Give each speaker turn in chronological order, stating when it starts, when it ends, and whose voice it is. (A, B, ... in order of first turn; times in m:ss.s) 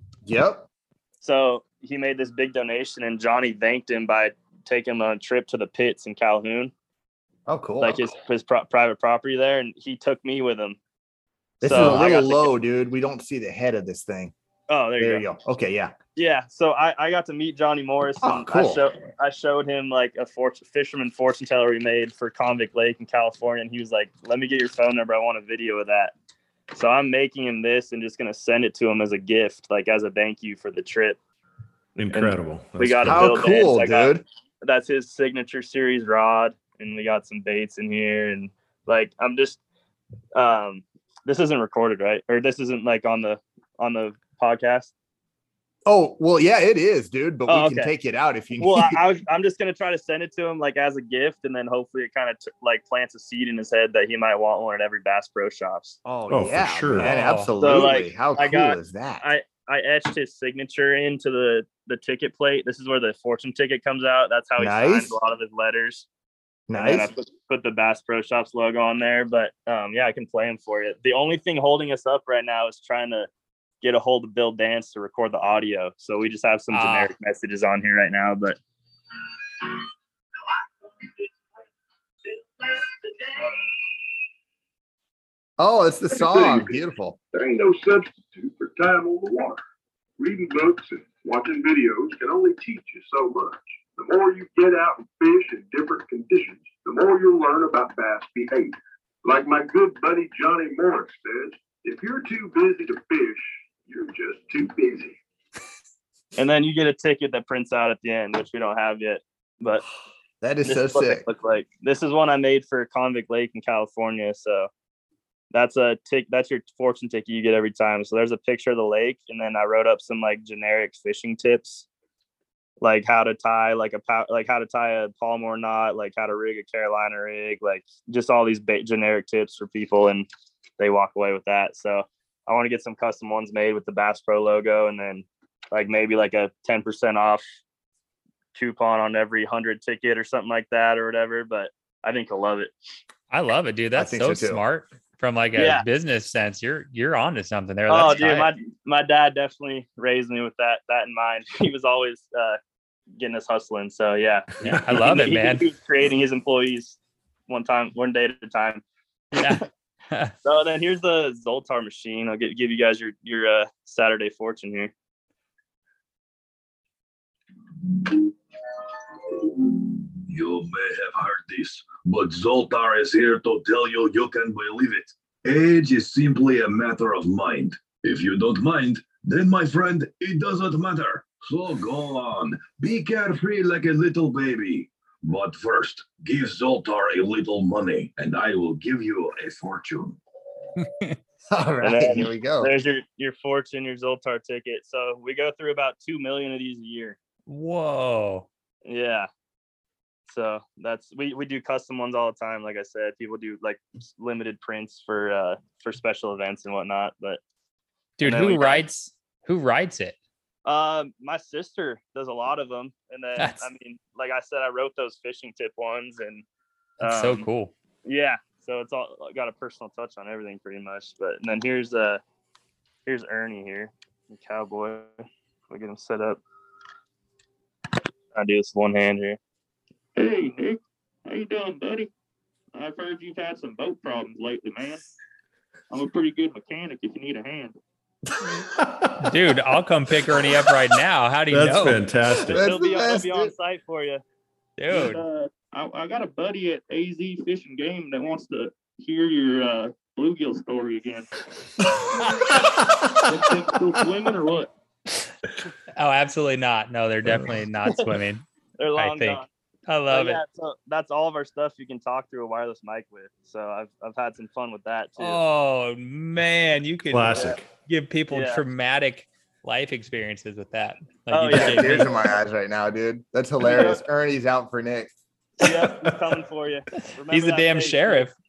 0:00.2-0:00.7 A
0:01.2-0:06.7 B
0:07.5-0:08.0 A
0:07.8-0:10.8 B
0:11.6-0:14.3 A
0:11.6-0:12.5 B
0:14.7-0:15.2 B
0:15.0-0:15.9 A
0:16.2-0:26.1 B
0:18.2-0:18.8 A
0:26.7-0:31.2 B
0:32.0-0:33.4 C
0:32.1-0:39.6 B
0:33.0-0:34.2 A
0:40.3-0:44.9 B
0:45.8-0:49.0 A
0:47.5-0:47.9 B
0:48.6-0:56.0 B
0:56.0-0:59.2 A
0:56.3-0:57.1 C
0:57.0-0:57.5 D
0:57.6-1:06.0 B
1:04.6-1:05.2 A
1:06.7-1:07.1 A
1:06.7-1:13.3 B
1:13.8-1:18.6 B
1:16.7-1:17.1 D
1:25.6-1:27.2 A
1:26.2-1:26.7 E
1:27.3-1:29.6 E
1:30.2-1:45.2 E
1:46.4-1:49.8 B
1:50.4-1:51.2 A
1:50.6-1:54.7 B
1:55.5-2:01.8 B
2:02.8-2:10.3 B
2:10.8-2:17.4 B
2:18.5-2:22.7 B
2:23.3-2:28.5 D
2:23.9-2:24.6 A
2:25.6-2:25.8 B
2:27.9-2:32.6 B
2:33.2-2:37.0 B
2:34.6-2:35.7 D
2:37.5-2:38.8 B
2:39.3-2:40.3 D
2:40.4-2:44.9 B
2:50.2-3:10.2 F
3:10.8-3:11.2 D
3:11.5-3:12.7 A
3:11.8-3:17.2 B
3:17.5-3:18.5 D
3:18.8-3:19.3 B
3:20.3-3:27.4 B
3:28.2-3:30.2 D
3:28.2-3:28.8 B
3:30.6-3:36.4 B
3:33.4-3:33.7 D
3:37.0-3:37.4 B
3:37.0-3:37.7 D
3:38.0-3:42.2 B
3:43.0-3:46.4 B
3:48.3-3:49.4 B
3:50.2-3:52.1 G
3:52.7-3:55.0 G
3:55.9-3:57.7 G
3:58.6-3:59.2 C
3:59.2-4:02.0 D
4:01.5-4:02.6 C
4:02.3-4:03.5 A
4:02.6-4:04.2 B
4:04.8-4:05.2 D
4:04.9-4:11.3 G
4:13.3-4:14.7 G
4:16.0-4:18.4 D
4:18.8-4:19.5 B
4:19.0-4:20.4 D
4:20.1-4:25.4 B
4:25.2-4:32.1 D
4:27.1-4:27.6 C
4:28.3-4:28.6 B
4:31.3-4:32.0 B
4:31.5-4:35.2 A
4:33.6-4:34.0 B
4:35.6-4:38.3 B
4:35.7-4:36.1 C
4:37.0-4:38.3 D